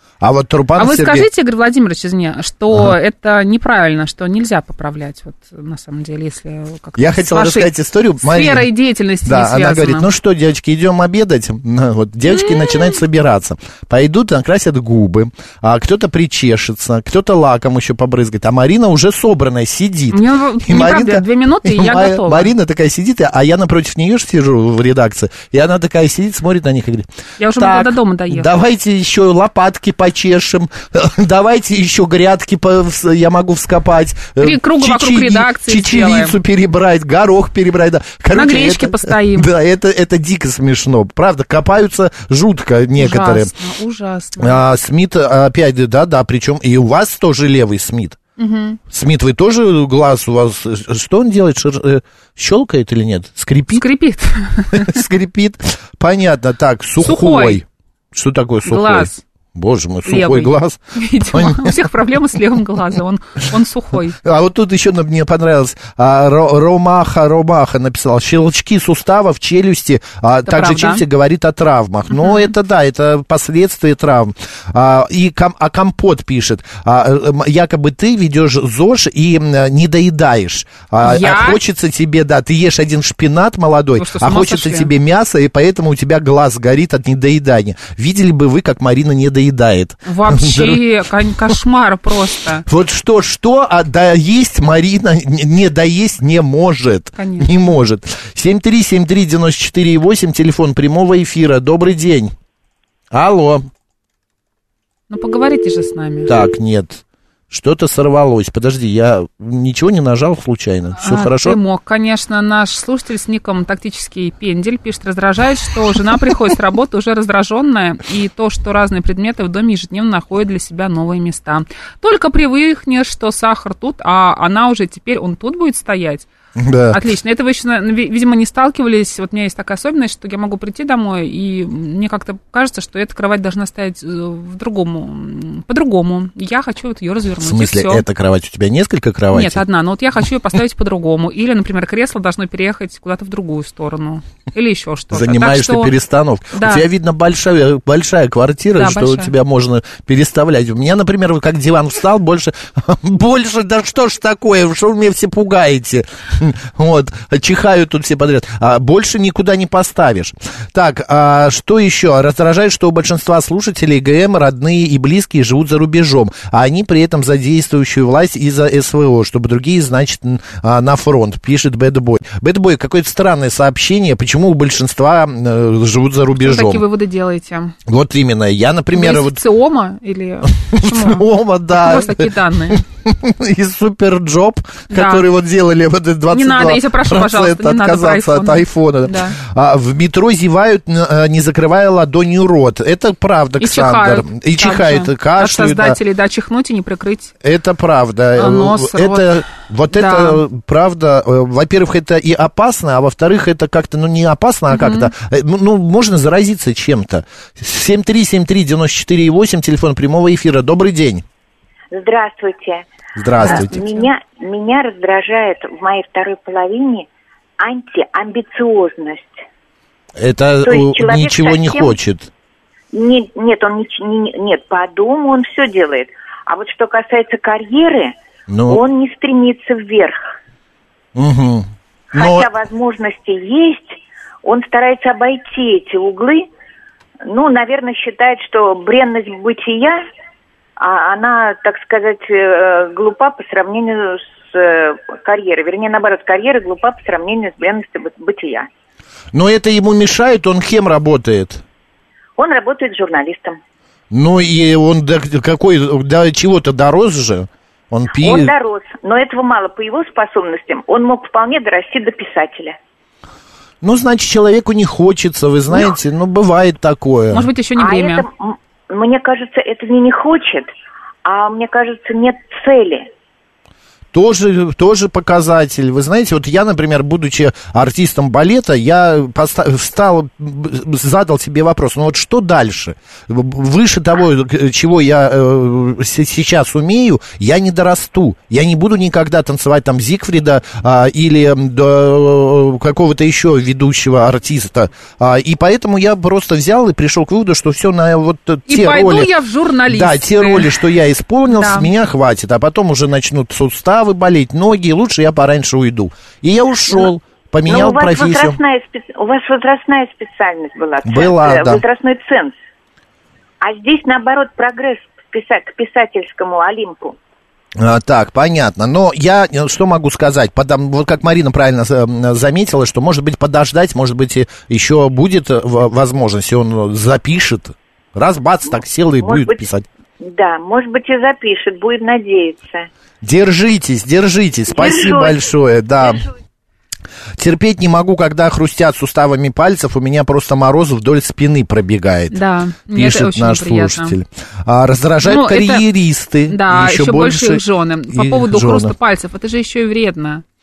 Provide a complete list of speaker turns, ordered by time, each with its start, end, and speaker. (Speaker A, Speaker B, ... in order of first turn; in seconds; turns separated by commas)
Speaker A: 0.2-1.3, Speaker B: 0.8-7.7, Speaker A: 7.0-8.7, Speaker B: 8.2-10.1, Speaker A: 9.2-43.5, Speaker B: 12.3-13.0, Speaker B: 20.1-22.5, Speaker B: 27.4-28.5, Speaker B: 34.4-36.4, Speaker B: 38.3-39.5, Speaker B: 43.0-44.6, Speaker A: 44.4-48.2, Speaker B: 48.4-48.8, Speaker A: 48.9-53.8, Speaker B: 53.7-55.0, Speaker A: 54.7-61.8, Speaker B: 57.0-57.6, Speaker B: 58.6-59.2, Speaker B: 60.0-64.2, Speaker A: 64.2-90.8, Speaker B: 70.5-71.0, Speaker B: 72.1-72.5, Speaker B: 81.0-81.6, Speaker B: 84.0-84.9, Speaker B: 90.0-92.6, Speaker A: 92.7-102.3, Speaker B: 97.2-97.5, Speaker A: 103.1-103.7, Speaker B: 105.1-106.3, Speaker A: 106.2-111.6, Speaker B: 111.0-126.3, Speaker A: 126.5-127.0, Speaker B: 126.9-138.0, Speaker A: 137.4-139.6, Speaker B: 139.3-145.9, Speaker A: 145.1-176.8, Speaker B: 146.5-146.8, Speaker B: 148.7-149.3, Speaker B: 176.3-177.7, Speaker A: 177.8-179.4, Speaker B: 178.9-182.8, Speaker A: 180.5-196.0, Speaker B: 184.9-185.2, Speaker B: 186.3-189.3, Speaker B: 193.6-197.3, Speaker A: 197.4-211.2, Speaker B: 198.3-199.4, Speaker B: 199.9-200.4, Speaker B: 204.7-205.1, Speaker C: 211.9-212.8, Speaker A: 213.2-213.8, Speaker B: 213.4-214.1, Speaker C: 213.4-217.1, Speaker C: 217.6-219.4, Speaker A: 220.2-222.3, Speaker C: 220.6-222.0, Speaker C: 222.9-228.1, Speaker A: 228.5-228.8, Speaker C: 228.7-230.2, Speaker A: 231.1-232.5, Speaker C: 232.1-236.5, Speaker C: 237.3-240.0, Speaker C: 240.8-248.7, Speaker A: 249.3-251.6, Speaker C: 252.4-253.6, Speaker A: 254.1-258.5, Speaker C: 258.1-262.8, Speaker A: 263.8-267.5, Speaker B: 267.3-268.2, Speaker C: 267.8-270.7, Speaker C: 271.2-273.1, Speaker A: 274.1-299.3, Speaker B: 298.7-300.7, Speaker A: 299.9-308.6, Speaker B: 301.5-301.9, Speaker C: 307.6-312.5, Speaker A: 311.0-311.8, Speaker C: 313.6-317.2, Speaker A: 317.8-329.9, Speaker C: 329.2-329.6, Speaker C: 330.2-332.9, Speaker A: 333.2-336.2, Speaker C: 334.7-335.5, Speaker C: 336.0-336.3, Speaker A: 337.4-342.4, Speaker B: 342.3-344.1, Speaker A: 342.9-348.9, Speaker B: 345.2-345.8, Speaker B: 346.5-350.4